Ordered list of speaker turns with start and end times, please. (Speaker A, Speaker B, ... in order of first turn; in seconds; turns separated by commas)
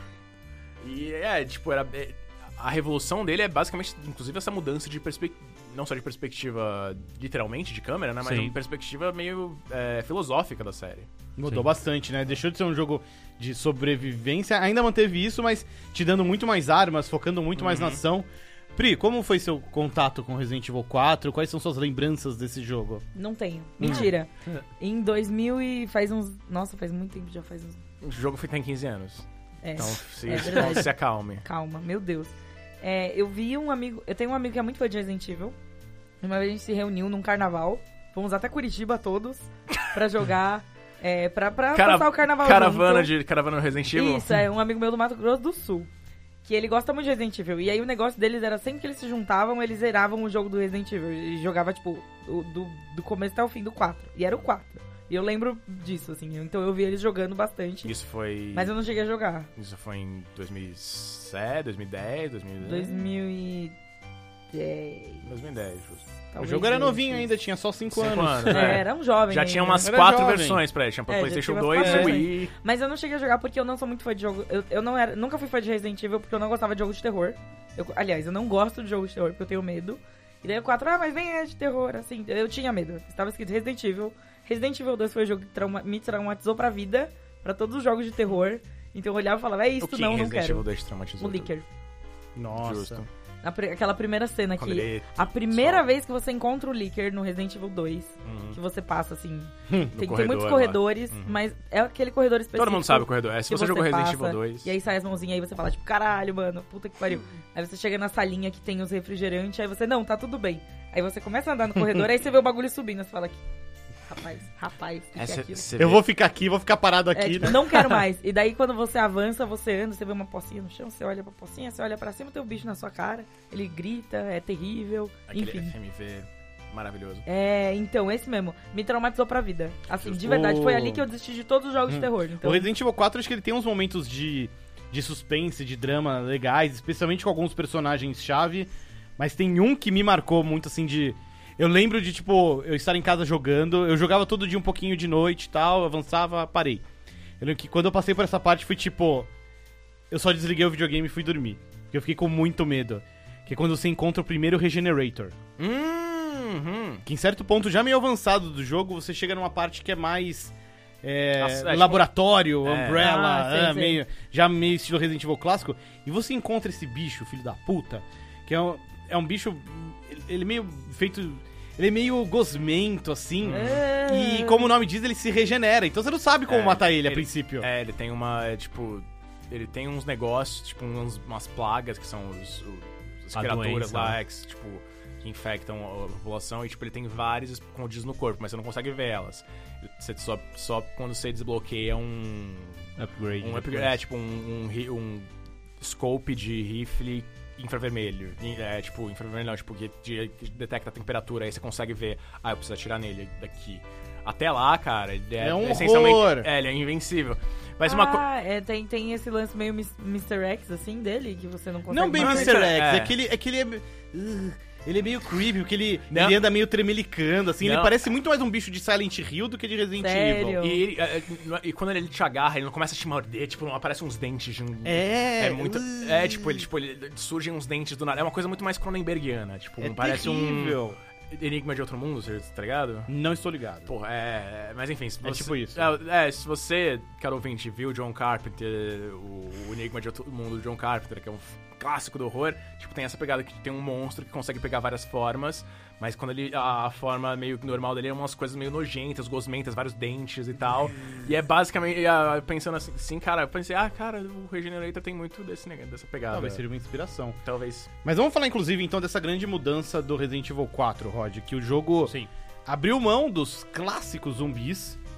Speaker A: 0.8-11.1, Speaker B: 8.2-8.5, Speaker C: 11.4-23.0, Speaker A: 17.6-18.0, Speaker D: 23.1-27.8, Speaker C: 23.8-24.1, Speaker A: 28.0-31.4, Speaker D: 29.6-35.5, Speaker D: 36.2-43.1, Speaker A: 41.7-44.4, Speaker D: 43.9-45.9, Speaker D: 46.4-57.9, Speaker A: 57.8-58.7, Speaker D: 58.5-59.5, Speaker A: 59.5-63.0, Speaker D: 62.6-63.7, Speaker D: 64.5-65.3, Speaker A: 65.2-66.0, Speaker D: 66.3-67.2, Speaker C: 66.4-68.8, Speaker A: 67.9-72.5, Speaker D: 68.5-69.9, Speaker C: 69.8-70.6, Speaker D: 71.1-90.6, Speaker C: 71.8-72.2, Speaker A: 89.8-91.5, Speaker D: 91.2-91.6, Speaker C: 92.3-93.0, Speaker A: 92.6-93.1, Speaker D: 93.4-113.4, Speaker A: 94.6-95.8, Speaker A: 98.2-98.6, Speaker C: 99.7-99.9, Speaker A: 99.9-101.3, Speaker A: 102.5-104.7, Speaker D: 114.1-115.7, Speaker A: 115.1-116.0, Speaker C: 115.8-118.0, Speaker D: 117.1-125.7, Speaker A: 125.3-127.2, Speaker D: 127.2-132.7, Speaker C: 130.1-131.0, Speaker C: 131.9-146.8, Speaker C: 147.4-149.3, Speaker C: 150.1-155.3, Speaker A: 155.6-157.0, Speaker C: 157.1-177.7, Speaker A: 161.4-162.0, Speaker A: 162.6-163.1, Speaker D: 163.0-164.0, Speaker A: 173.4-173.8, Speaker D: 173.5-174.7, Speaker A: 176.5-192.9, Speaker B: 183.3-184.2, Speaker B: 193.0-194.0, Speaker A: 193.4-195.3, Speaker A: 195.8-208.2, Speaker C: 205.4-206.5, Speaker D: 207.8-212.6, Speaker C: 211.9-220.6, Speaker A: 212.1-213.1, Speaker A: 216.1-216.4, Speaker A: 217.6-218.0, Speaker D: 220.0-220.8, Speaker A: 220.6-233.1, Speaker C: 224.8-226.6, Speaker C: 229.8-231.0, Speaker C: 233.1-233.9, Speaker A: 233.9-256.6, Speaker C: 235.2-235.9, Speaker C: 256.3-257.4, Speaker A: 257.4-257.9, Speaker C: 258.0-262.1, Speaker C: 262.6-265.0